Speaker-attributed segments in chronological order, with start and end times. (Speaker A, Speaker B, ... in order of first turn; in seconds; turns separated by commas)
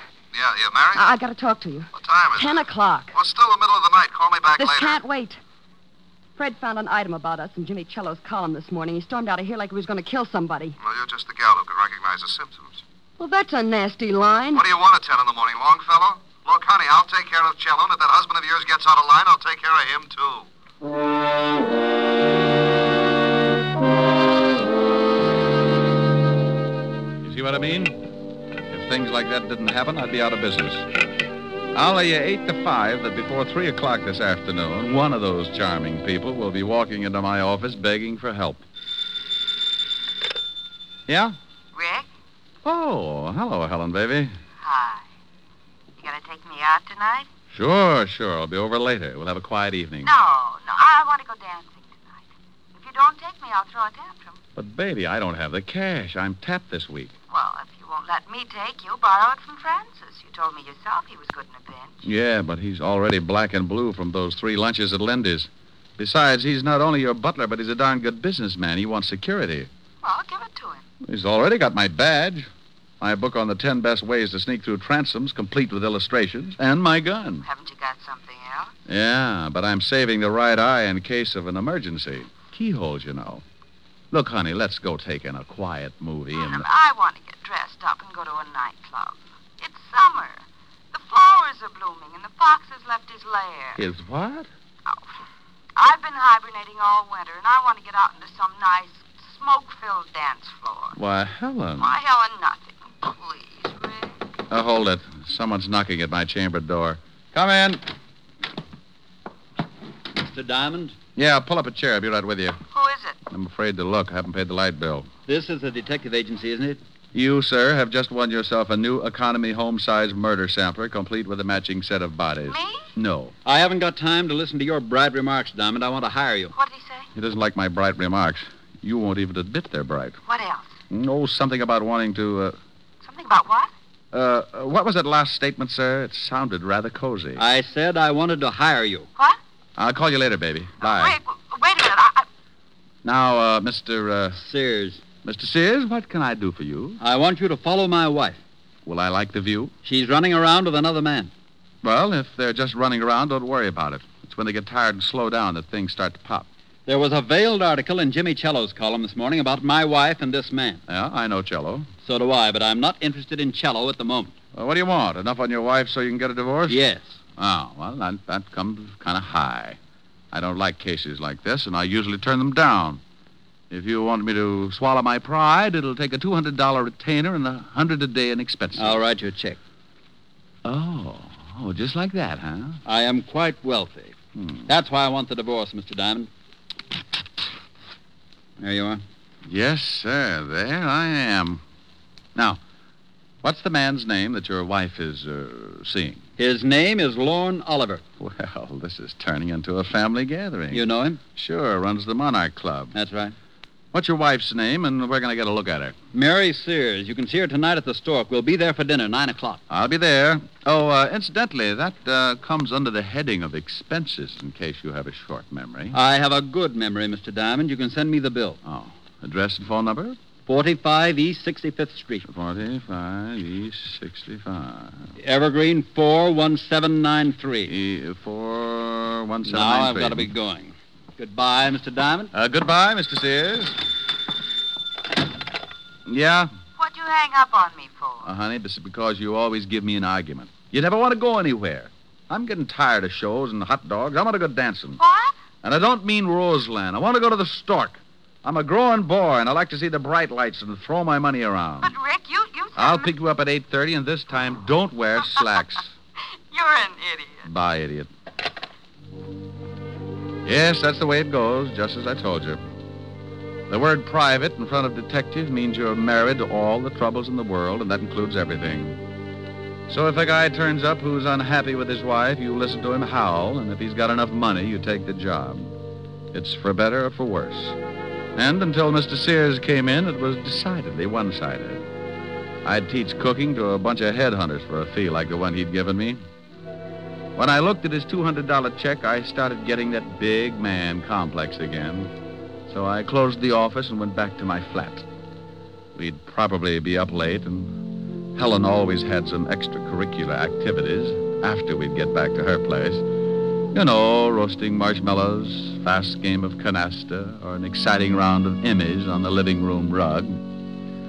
Speaker A: 0.3-1.0, Speaker B: 0.9-3.1, Speaker A: 1.9-2.6, Speaker A: 3.1-5.0, Speaker B: 4.6-5.4, Speaker B: 6.4-10.8, Speaker A: 10.8-12.8, Speaker B: 13.2-14.6, Speaker A: 14.5-20.5, Speaker C: 27.2-28.0, Speaker C: 28.7-30.9, Speaker C: 31.7-38.6, Speaker C: 41.1-41.4, Speaker D: 41.7-42.0, Speaker C: 42.6-44.3, Speaker D: 44.6-45.0, Speaker D: 46.0-47.3, Speaker C: 47.5-50.1, Speaker D: 50.0-52.2, Speaker D: 52.7-54.4, Speaker C: 54.5-57.1, Speaker D: 57.3-62.0, Speaker C: 62.0-69.7, Speaker D: 70.0-70.8, Speaker C: 71.0-72.5, Speaker C: 73.0-77.5, Speaker D: 77.4-78.7, Speaker C: 78.9-83.4, Speaker C: 84.1-86.7, Speaker D: 86.4-93.8, Speaker C: 93.8-94.5, Speaker D: 95.8-101.0, Speaker C: 101.0-102.0, Speaker D: 101.8-104.1, Speaker C: 104.5-107.8, Speaker E: 110.2-111.0, Speaker C: 111.2-112.6, Speaker D: 112.7-113.2, Speaker C: 113.3-115.1, Speaker E: 115.3-116.8, Speaker C: 117.1-123.3, Speaker D: 122.5-122.9, Speaker E: 123.4-126.5, Speaker D: 126.5-127.0, Speaker C: 127.1-130.2, Speaker D: 130.2-130.7, Speaker C: 130.9-132.6, Speaker D: 133.0-133.7, Speaker C: 134.1-137.4, Speaker E: 137.4-139.1, Speaker C: 139.8-141.2, Speaker D: 140.8-142.2, Speaker C: 143.0-144.4, Speaker E: 144.3-145.0, Speaker C: 145.2-147.0, Speaker E: 147.0-148.4, Speaker C: 148.8-149.7, Speaker E: 149.8-151.3, Speaker C: 151.8-156.5, Speaker E: 156.8-160.8, Speaker C: 160.9-161.9, Speaker E: 162.0-164.3, Speaker C: 164.5-166.8, Speaker E: 166.7-167.1, Speaker C: 167.4-169.8, Speaker C: 170.3-173.0, Speaker C: 173.7-179.0, Speaker E: 178.8-179.6, Speaker C: 180.6-182.8, Speaker E: 182.8-184.1, Speaker E: 184.7-186.3, Speaker E: 188.6-189.0, Speaker C: 189.5-191.6, Speaker C: 193.4-196.2, Speaker E: 196.4-198.0, Speaker C: 198.2-202.9, Speaker E: 200.7-201.2, Speaker E: 202.9-203.3, Speaker C: 203.9-205.9, Speaker E: 206.1-209.6, Speaker C: 209.7-215.9, Speaker E: 215.9-218.6, Speaker C: 218.7-220.2, Speaker E: 220.4-222.2, Speaker C: 222.3-225.0, Speaker E: 225.2-227.7, Speaker C: 227.7-230.3, Speaker E: 229.4-232.3, Speaker C: 232.3-233.8, Speaker C: 236.1-236.5, Speaker D: 236.8-238.2, Speaker C: 238.2-245.0, Speaker D: 245.0-245.3, Speaker C: 245.6-251.9, Speaker D: 251.8-253.1, Speaker C: 252.7-255.9, Speaker D: 256.5-257.4, Speaker C: 257.5-258.1, Speaker C: 260.4-262.6, Speaker C: 263.7-269.0, Speaker C: 269.9-275.7, Speaker C: 276.3-277.8, Speaker C: 278.3-281.8, Speaker C: 282.6-286.2, Speaker C: 287.4-292.1, Speaker C: 292.7-295.1, Speaker C: 295.9-297.8, Speaker C: 298.3-303.0, Speaker C: 303.7-310.4